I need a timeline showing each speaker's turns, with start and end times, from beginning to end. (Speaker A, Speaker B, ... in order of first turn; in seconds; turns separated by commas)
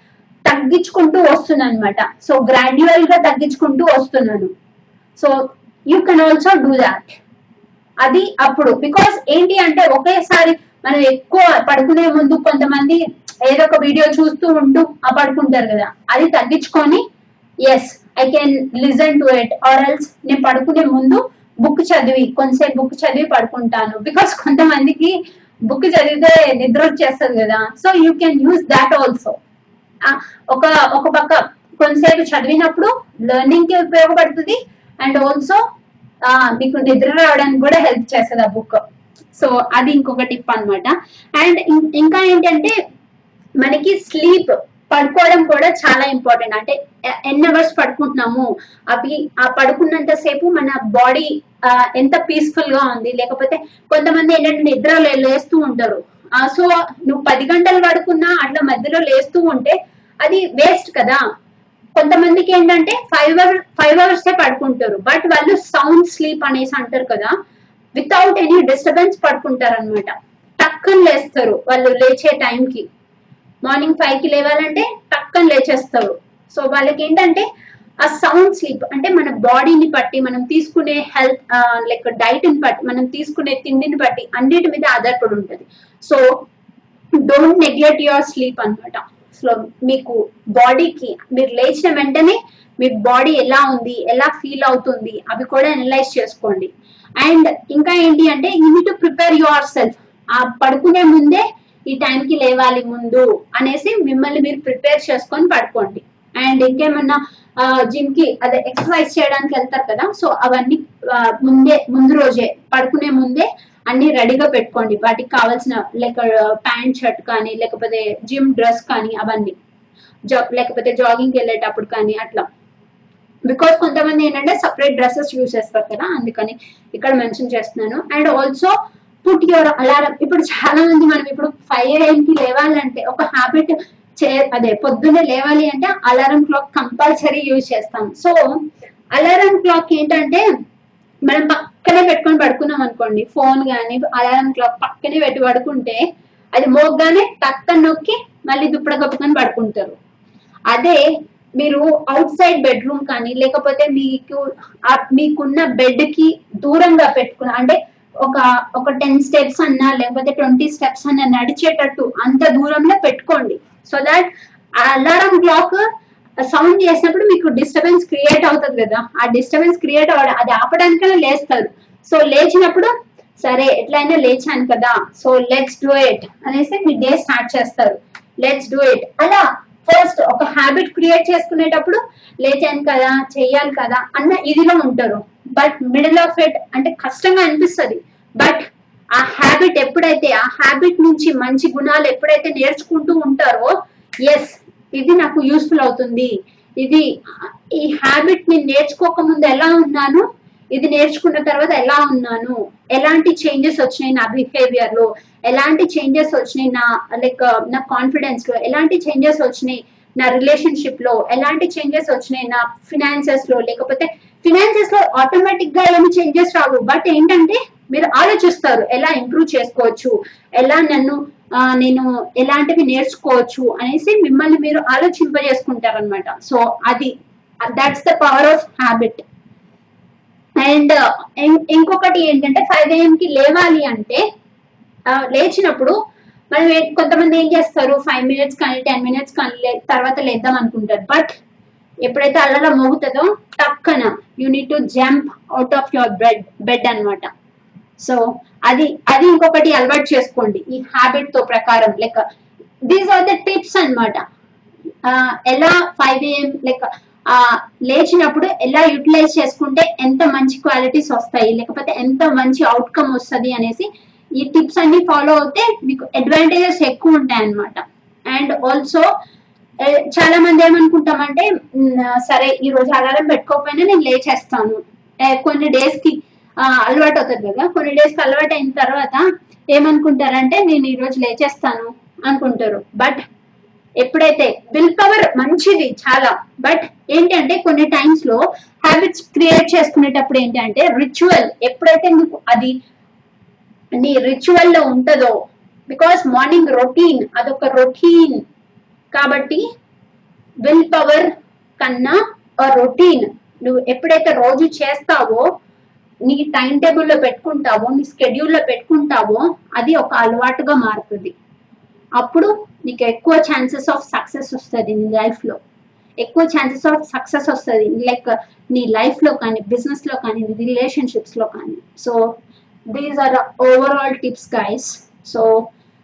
Speaker A: 0.5-4.5, Speaker A: 5.9-7.2, Speaker A: 8.0-17.0, Speaker A: 17.7-29.4, Speaker A: 30.0-35.6, Speaker A: 36.2-38.8, Speaker A: 39.3-42.7, Speaker A: 43.6-61.2, Speaker A: 62.0-67.3, Speaker A: 68.0-72.9, Speaker A: 73.7-77.5, Speaker A: 78.0-86.2, Speaker A: 87.2-119.6, Speaker A: 120.3-122.5, Speaker A: 123.5-128.7, Speaker A: 129.2-138.4, Speaker A: 139.2-140.4, Speaker A: 141.3-146.0, Speaker A: 146.6-150.0, Speaker A: 150.7-151.0, Speaker A: 151.6-164.3, Speaker A: 164.8-165.8, Speaker A: 166.4-188.6, Speaker A: 189.2-193.7, Speaker A: 194.3-227.1, Speaker A: 227.7-229.2, Speaker A: 230.6-234.2, Speaker A: 235.1-236.0, Speaker A: 236.5-241.3, Speaker A: 242.0-247.3, Speaker A: 248.0-252.2, Speaker A: 252.9-254.2, Speaker A: 255.1-269.1, Speaker A: 269.8-283.2, Speaker A: 284.0-292.8, Speaker A: 294.0-295.4, Speaker A: 295.9-298.4, Speaker A: 299.1-299.6, Speaker A: 300.6-305.5, Speaker A: 306.3-311.4, Speaker A: 312.2-315.6, Speaker A: 316.2-325.7